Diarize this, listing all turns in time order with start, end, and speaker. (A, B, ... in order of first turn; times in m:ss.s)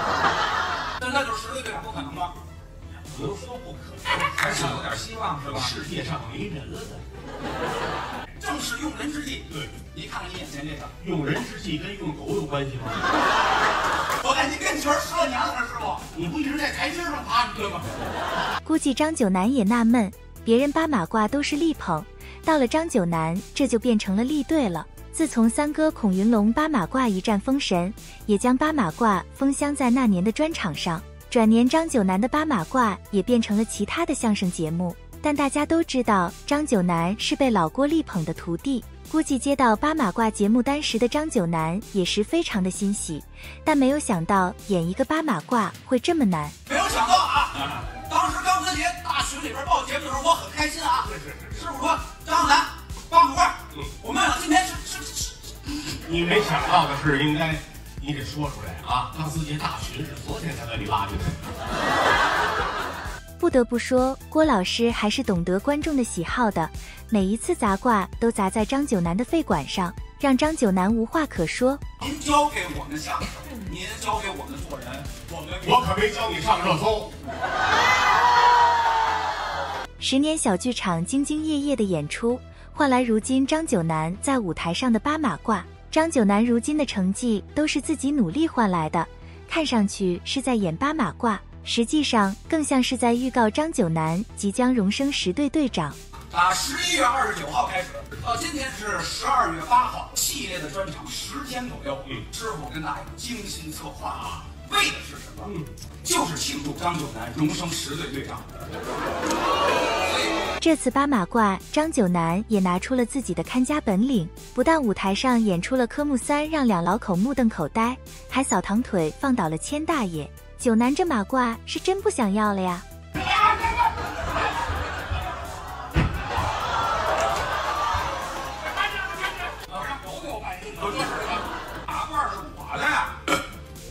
0:01.0-0:02.4 A
0:03.1-0:03.8 B
0:03.3-0:05.8 A
0:05.5-0:07.0 B
0:08.4-0:10.9 A
0:11.0-0:13.1 B
0:14.2-0:16.1 A
0:16.1-0:17.8 B
0:18.6-0:46.6 C
0:46.7-0:55.8 A
0:51.2-0:51.5 B
0:56.0-1:01.5 B
1:03.4-1:11.8 C
1:12.0-1:15.9 A
1:15.6-1:17.1 B
1:20.0-1:36.0 C
1:36.3-1:48.4 A
1:50.6-2:02.8 C
2:09.6-2:13.3 A